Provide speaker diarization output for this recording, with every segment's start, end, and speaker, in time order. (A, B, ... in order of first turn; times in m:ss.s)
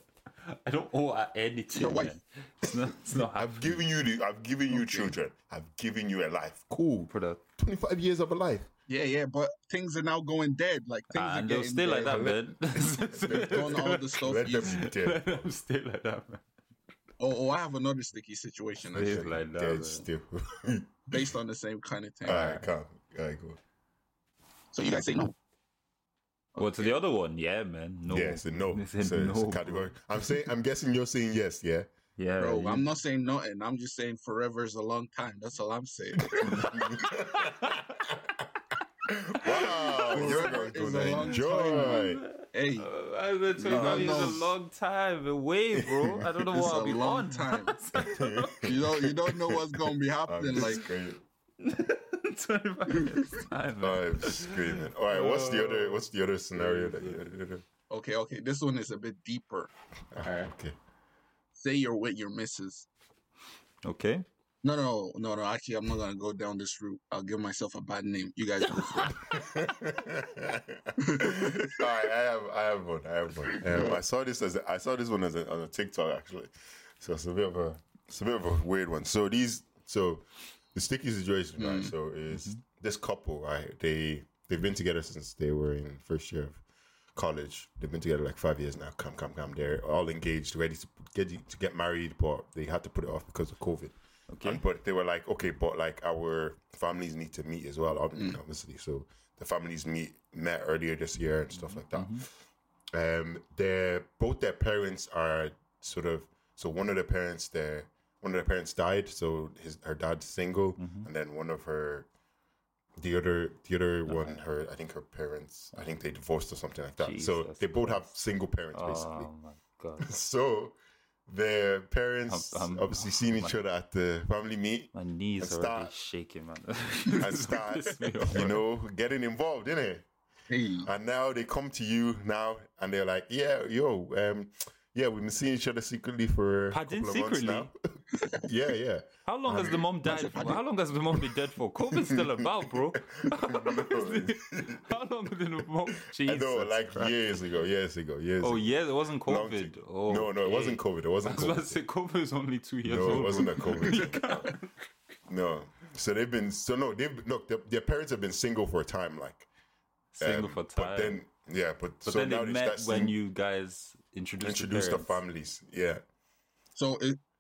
0:00.4-0:03.8 A
0:01.7-0:02.1 B
0:03.0-0:08.7 C
0:04.7-0:05.1 B
0:07.1-0:07.4 A
0:08.9-0:14.8 B
0:11.1-0:14.2 A
0:12.0-0:12.6 C
0:13.3-0:15.5 C
0:14.7-0:16.4 A
0:17.2-0:19.2 B
0:18.9-0:21.2 C
0:19.0-0:20.1 A
0:21.1-0:22.4 B
0:22.2-0:22.7 A
0:22.2-0:23.6 C
0:24.7-0:25.4 B
0:26.6-0:26.9 B
0:26.6-0:29.9 A
0:28.1-0:31.9 C
0:32.2-0:32.9 A
0:32.4-0:36.5 B
0:36.3-0:38.3 C
0:37.0-0:37.8 A
0:39.3-0:42.2 C
0:39.4-0:48.7 A
0:40.1-0:42.9 B
0:43.6-0:44.5 B
0:43.7-0:44.4 C
0:45.8-0:46.2 C
0:46.5-0:47.7 B
0:48.0-0:49.6 C
0:48.6-0:50.8 B
0:50.3-0:51.2 C
0:51.6-0:57.4 A
0:53.8-0:57.6 C
0:57.9-0:59.7 B
1:00.1-1:00.8 C
1:01.6-1:02.9 B
1:03.8-1:04.3 A
1:04.6-1:09.3 B
1:09.1-1:26.6 C
1:11.0-1:11.8 B
1:21.6-1:21.9 B
1:22.3-1:22.6 A
1:27.2-1:42.3 C
1:34.3-1:34.6 A
1:41.5-1:42.3 A
1:42.9-1:52.1 C
1:50.8-1:51.1 A
1:53.0-1:59.3 C
1:54.1-1:54.4 A
1:57.0-1:58.1 A
1:58.7-2:00.1 A
2:00.0-2:00.8 C
2:01.3-2:05.9 C
2:02.3-2:03.6 A
2:04.9-2:08.5 A
2:07.2-2:10.1 C
2:10.5-2:10.9 B
2:10.8-2:17.8 C
2:16.7-2:17.7 A
2:18.2-2:18.5 B
2:18.4-2:19.8 C
2:19.3-2:27.2 A
2:20.0-2:20.6 B
2:22.1-2:24.9 C
2:26.1-2:31.8 C
2:28.4-2:34.7 A
2:32.8-2:34.5 C
2:33.9-2:34.4 B
2:35.3-2:39.5 C
2:40.2-2:41.2 A
2:40.2-2:43.2 C
2:42.0-2:45.2 A
2:44.4-2:46.0 C
2:46.8-2:47.2 B